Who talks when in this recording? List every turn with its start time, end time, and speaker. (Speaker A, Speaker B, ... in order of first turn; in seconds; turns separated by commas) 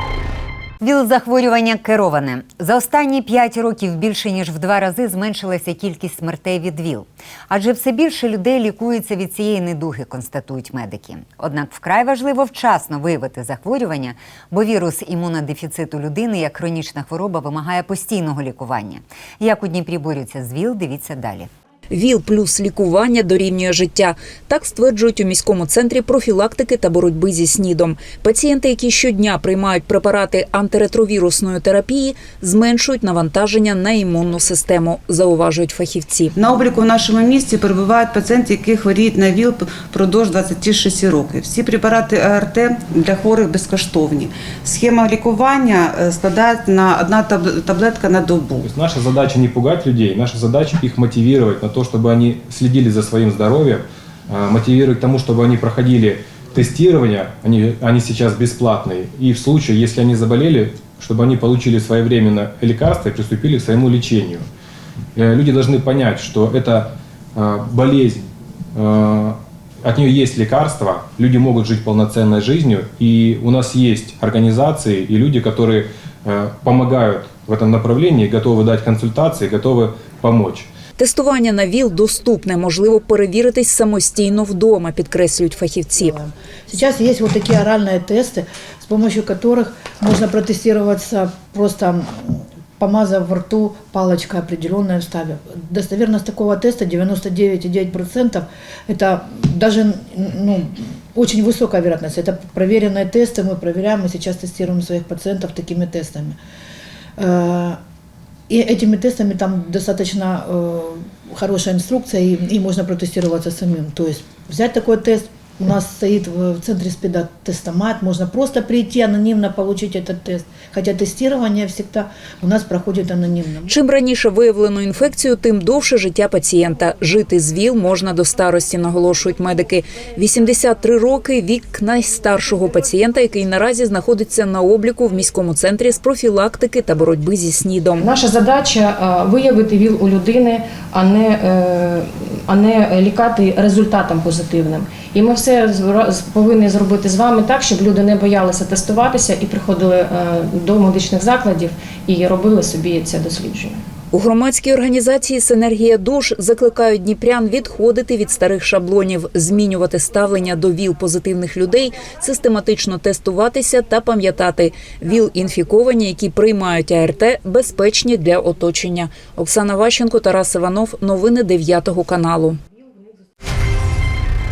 Speaker A: 0.8-21.5, Speaker B: 21.9-36.3, Speaker C: 36.4-48.7, Speaker D: 48.6-64.5, Speaker D: 65.2-68.2, Speaker D: 68.8-80.7, Speaker B: 81.0-86.1, Speaker E: 86.0-106.4, Speaker E: 107.2-107.8, Speaker E: 108.5-123.7, Speaker B: 123.7-138.1, Speaker F: 138.0-153.8, Speaker B: 154.1-172.6